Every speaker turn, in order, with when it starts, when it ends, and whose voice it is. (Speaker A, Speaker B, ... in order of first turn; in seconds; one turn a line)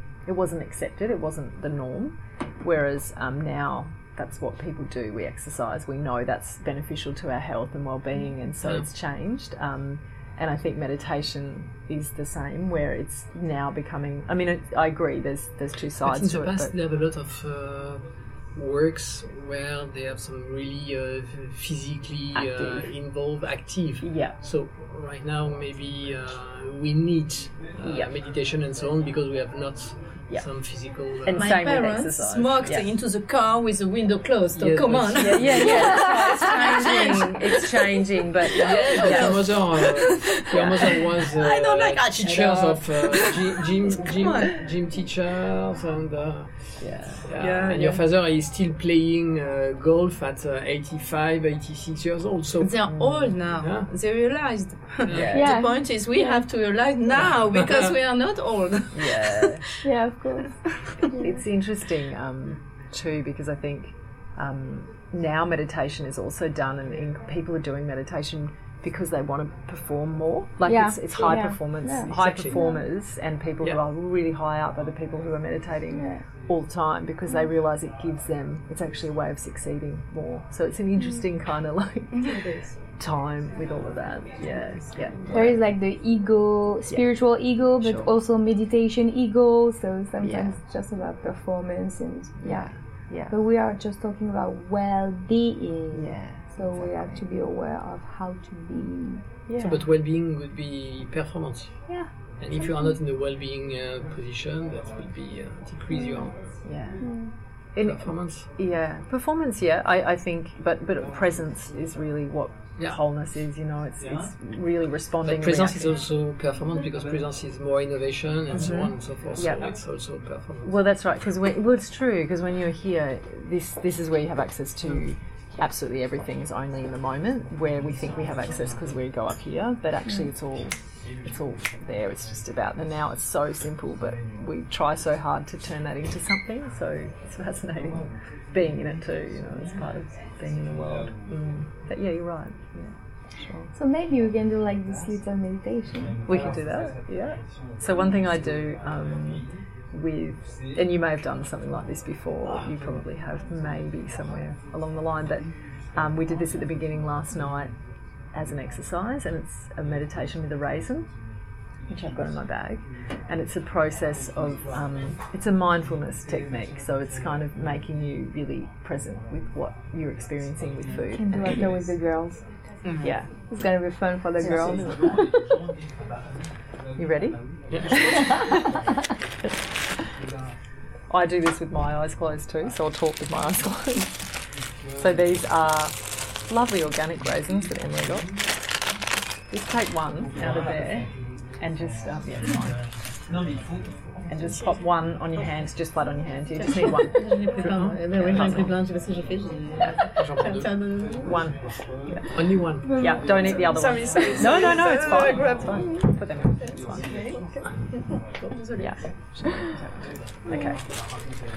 Speaker A: 0.2-16.7
Speaker B: 16.0-31.6
Speaker A: 22.3-22.9
Speaker A: 24.0-24.4
Speaker A: 27.8-28.1
Speaker A: 30.3-32.9
Speaker C: 31.3-38.0
Speaker B: 34.5-36.3
Speaker A: 35.1-39.5
Speaker D: 35.8-36.4
Speaker C: 38.5-44.7
Speaker B: 38.6-52.8
Speaker A: 40.5-40.9
Speaker A: 46.8-47.2
Speaker C: 47.4-48.0
Speaker C: 52.6-59.8
Speaker A: 52.8-53.4
Speaker B: 53.4-53.9
Speaker B: 55.0-55.6
Speaker A: 55.1-55.4
Speaker D: 55.3-56.4
Speaker B: 57.1-57.9
Speaker A: 58.9-59.7
Speaker D: 59.8-61.4
Speaker A: 61.1-82.4
Speaker D: 70.6-72.8
Speaker B: 72.0-72.6
Speaker D: 75.9-76.2
Speaker C: 82.2-82.8
Speaker A: 83.0-85.7
Speaker C: 84.5-85.1
Speaker D: 85.3-92.7
Speaker A: 87.8-88.1
Speaker A: 90.2-90.6
Speaker A: 92.4-93.3
Speaker D: 93.2-99.2
Speaker A: 95.9-97.2
Speaker A: 99.5-99.8
Speaker B: 99.6-106.6
Speaker D: 101.9-103.0
Speaker D: 105.9-106.2
Speaker A: 106.6-115.9
Speaker D: 107.0-107.3
Speaker B: 107.7-108.5
Speaker B: 115.2-120.8
Speaker A: 118.5-119.7
Speaker A: 120.6-143.7
Speaker D: 143.7-146.2
Speaker A: 146.2-157.7
Speaker A: 158.3-161.1
Speaker A: 161.9-171.7
Speaker D: 171.1-172.4
Speaker C: 172.8-173.2
Speaker A: 173.0-173.3
Speaker D: 173.5-175.6
Speaker A: 174.4-175.2
Speaker A: 177.0-178.5
Speaker B: 177.7-178.6
Speaker A: 181.1-184.2
Speaker A: 184.9-188.3
Speaker A: 189.5-192.9
Speaker A: 194.2-198.7
Speaker C: 196.6-201.5
Speaker A: 199.8-200.0
Speaker B: 200.2-201.0
Speaker A: 201.2-207.1
Speaker B: 202.3-203.0
Speaker D: 202.8-203.7
Speaker C: 202.9-209.7
Speaker A: 208.8-210.8